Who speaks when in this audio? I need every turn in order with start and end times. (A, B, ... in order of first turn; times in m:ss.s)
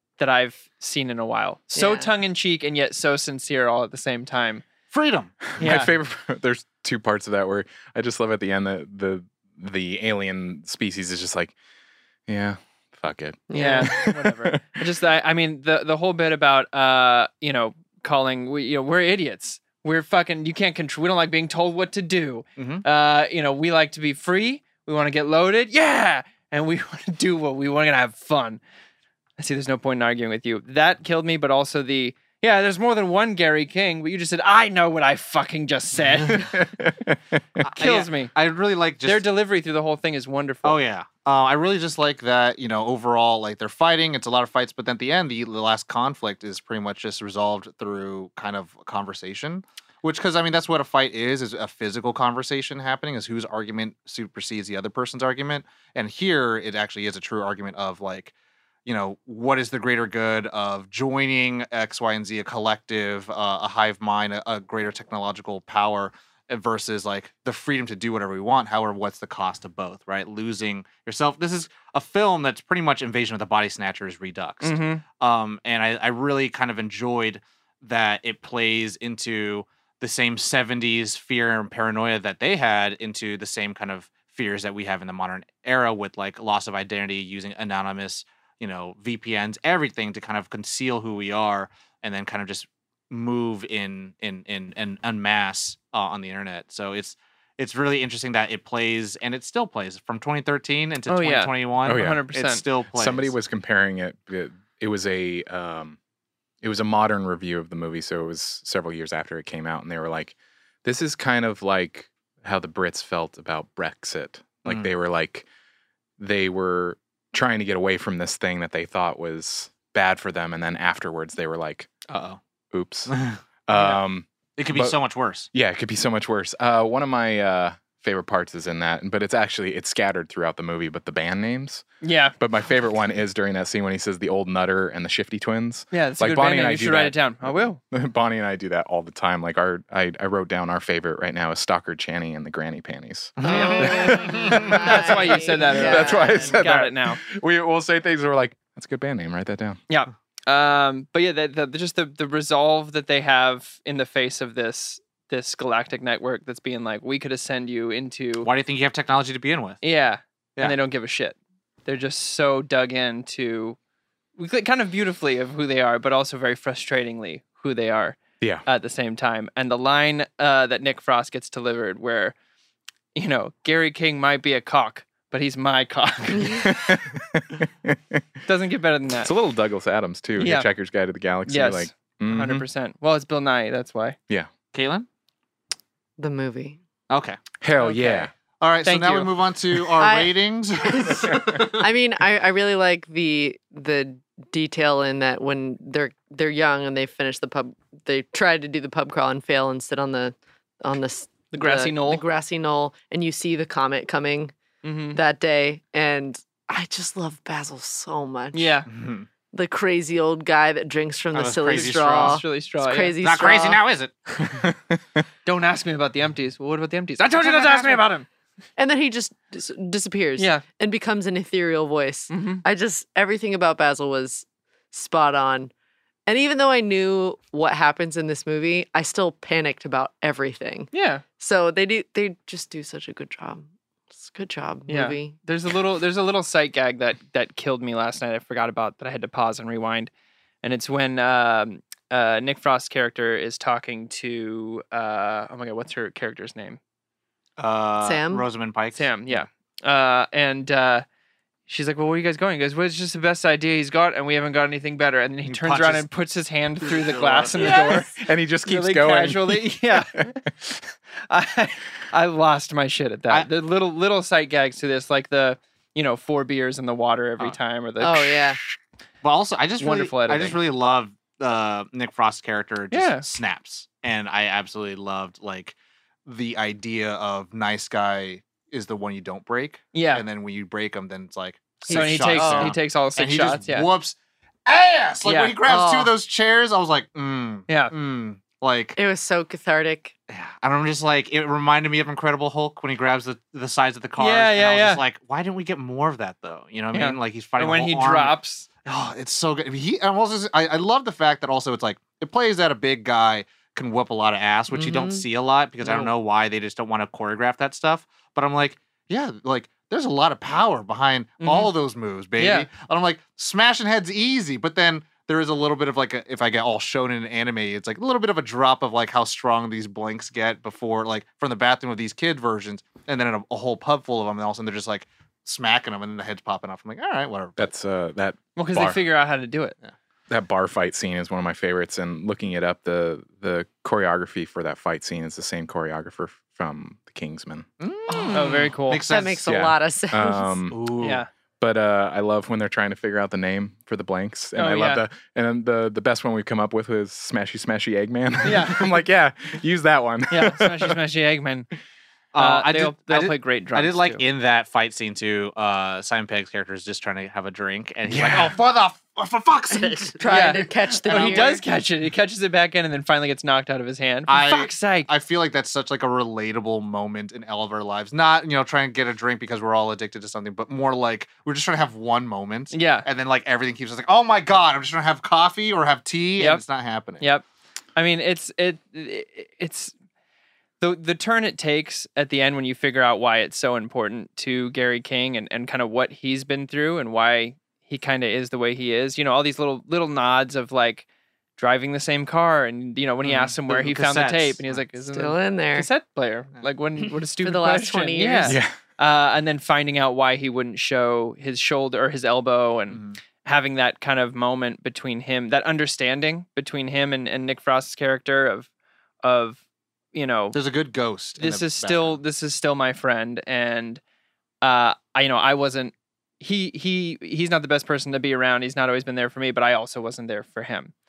0:00.2-0:04.6 A
0:01.8-0:02.1 B
0:04.9-0:05.5 C
0:05.6-0:11.5 D
0:05.6-0:05.9 A
0:12.3-0:14.8 D
0:13.5-0:14.0 B
0:13.5-0:28.6 A
0:22.6-0:22.8 C
0:29.4-0:36.7 A
0:36.5-0:37.4 D
0:37.6-0:39.3 C
0:37.8-0:38.3 A
0:39.0-0:40.8 A
0:40.6-0:58.3 C
0:58.8-1:43.3 C
1:14.6-1:15.0 A
1:41.1-1:42.6 A
1:41.8-1:42.2 D
1:42.9-1:46.0 D
1:46.6-1:55.5 D
1:54.6-1:54.9 C
1:56.2-2:01.9 D
2:02.1-2:02.4 C
2:02.7-2:05.0 D
2:03.1-2:04.0 C
2:04.6-2:05.5 C
2:05.5-2:11.8 D
2:12.0-2:12.4 A
2:12.4-2:29.8 D
2:15.9-2:17.8 A
2:23.4-2:24.8 C
2:23.4-2:26.6 B
2:23.5-2:27.2 A
2:29.9-2:38.5 A
2:38.4-2:39.8 C
2:39.8-2:43.8 A
2:44.4-2:52.3 A
2:53.1-2:56.8 A
2:56.6-2:58.2 D
2:58.4-2:59.3 A
2:59.2-3:02.6 D
3:00.4-3:00.7 A
3:01.5-3:04.2 A
3:04.7-3:05.1 C
3:06.2-3:06.8 B
3:07.1-3:07.4 C
3:07.6-3:08.3 D
3:07.8-3:08.3 A
3:08.6-3:11.8 C
3:08.8-3:09.3 A
3:10.0-3:24.5 B
3:21.5-3:22.2 A
3:24.8-3:25.2 A
3:25.1-3:28.8 B
3:28.5-3:28.9 A
3:28.9-3:29.3 C
3:29.5-3:33.8 B
3:31.3-3:32.4 C
3:31.7-3:33.2 A
3:33.2-3:34.6 C
3:35.4-3:38.3 A
3:37.2-3:37.9 C
3:37.5-3:38.0 B
3:38.8-3:45.7 B
3:40.4-3:40.6 A
3:42.3-3:42.6 A
3:46.2-3:53.7 B
3:50.9-3:51.2 A
3:54.2-3:55.3 B
3:54.9-4:00.1 A
4:00.6-4:06.8 A
4:07.6-4:09.0 C
4:08.0-4:08.4 B
4:08.9-4:11.0 A
4:11.7-4:28.6 A
4:15.4-4:16.1 C
4:16.8-4:17.9 C
4:17.6-4:18.0 B
4:18.1-4:20.2 D
4:28.0-4:28.6 B
4:29.2-4:49.0 C
4:29.8-4:30.6 A
4:32.9-4:33.2 A
4:39.9-4:40.2 A
4:41.9-4:42.8 B
4:41.9-4:43.9 A
4:45.2-4:45.6 A
4:45.6-4:46.1 B
4:47.7-4:47.9 A
4:49.0-4:50.1 B
4:50.3-5:27.7 C
4:54.2-4:55.0 A
4:56.9-4:58.7 A
5:04.7-5:05.2 B
5:11.4-5:11.7 A
5:12.4-5:12.7 A
5:27.6-5:29.0 D
5:28.6-5:29.7 A
5:30.3-5:37.6 D
5:37.8-5:39.4 C
5:38.1-5:40.5 B
5:38.3-5:39.0 A
5:39.5-5:40.8 D
5:40.7-5:41.2 C
5:41.0-5:41.3 A
5:41.6-5:51.0 D
5:44.5-5:45.0 A
5:48.4-5:49.0 A
5:50.3-5:51.7 A
5:52.3-6:01.6 C
5:52.4-5:54.2 A
5:58.1-5:58.5 D
5:59.7-6:01.6 B
6:00.2-6:05.1 A
6:04.3-6:17.2 C
6:12.7-6:13.0 A
6:16.4-6:16.6 A
6:17.2-6:17.4 A
6:18.0-6:19.9 A
6:20.8-6:31.0 A
6:31.6-6:48.7 A
6:33.2-6:34.8 C
6:35.1-6:35.9 B
6:37.4-6:38.6 B
6:38.4-6:38.8 D
6:42.9-6:43.2 C
6:49.2-6:49.6 A
6:50.1-6:50.6 A
6:50.5-6:52.2 C
6:51.4-6:54.0 A
6:54.6-7:00.9 A